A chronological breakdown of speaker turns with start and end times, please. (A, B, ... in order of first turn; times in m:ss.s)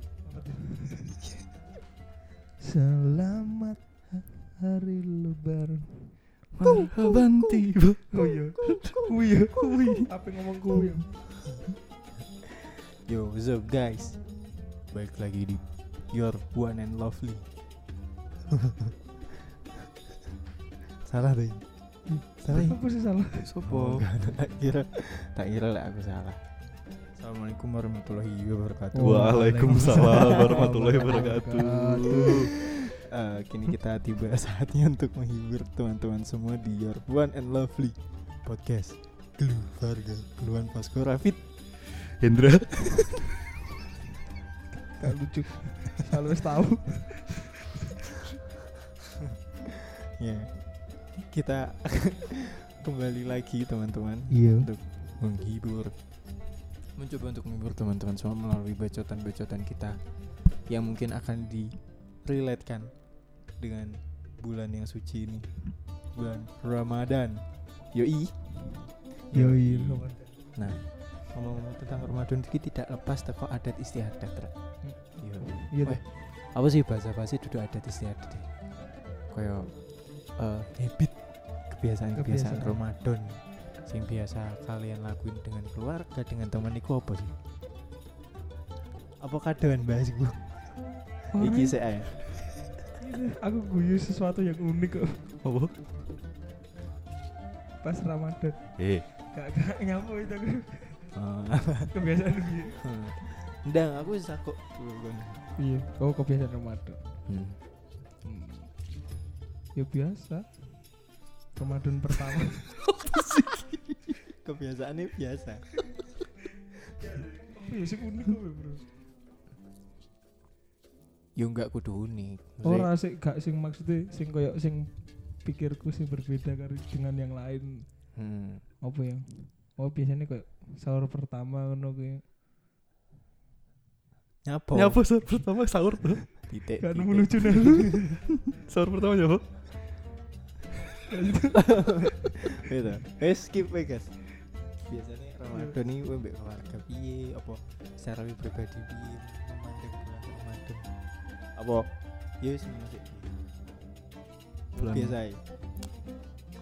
0:00.2-0:01.2 A
0:02.6-0:06.2 A
0:06.5-0:08.9 B
0:06.6-0:10.0 C
0:08.1-0:11.1 A
0:09.6-0:10.0 B
0:10.8-0:11.4 C
0:12.9-0:14.3 C
0:14.8-0:17.5 C
0:18.5-0:18.9 C
0:21.0-0:21.7 C
0:22.1-0:23.5 A
0:22.4-0:22.8 C
0:23.4-0:24.1 B
0:23.7-0:26.4 C
0:27.1-0:30.7 C
0:28.9-0:32.6 A
0:29.0-0:32.6 B
0:32.2-0:41.5 C
0:41.8-0:43.4 B
0:45.0-0:47.3 A
0:50.2-0:55.9 C
0:54.3-0:54.6 A
0:56.9-1:09.6 C
1:09.3-1:10.4 A
1:09.4-1:10.0 B
1:10.6-1:18.5 C
1:14.8-1:16.0 A
1:19.3-1:27.4 C
1:22.1-1:22.8 A
1:29.2-1:32.6 C
1:31.3-1:31.8 B
1:33.0-1:35.2 A
1:35.4-1:35.7 B
1:37.8-1:41.0 A
1:38.8-1:39.0 B
1:41.1-1:41.9 C
1:41.9-1:42.9 A
1:42.8-1:45.4 C
1:45.6-1:47.0 A
1:47.3-1:47.6 B
1:48.2-1:48.8 A
1:49.7-1:50.9 A
1:51.5-1:52.7 A
1:53.0-1:53.6 B
1:53.7-1:56.0 C
1:57.0-1:58.8 A
2:01.4-2:02.9 C
2:02.6-2:07.8 A
2:08.1-2:08.6 C
2:08.8-2:12.2 A
2:14.4-2:15.0 C
2:14.7-2:16.4 B
2:16.5-2:18.1 C
2:16.8-2:18.0 A
2:18.4-2:19.8 B
2:21.1-2:22.3 A
2:21.5-2:24.2 C
2:24.8-2:30.9 C
2:31.5-2:33.4 C
2:34.7-2:35.4 C
2:34.8-2:35.2 B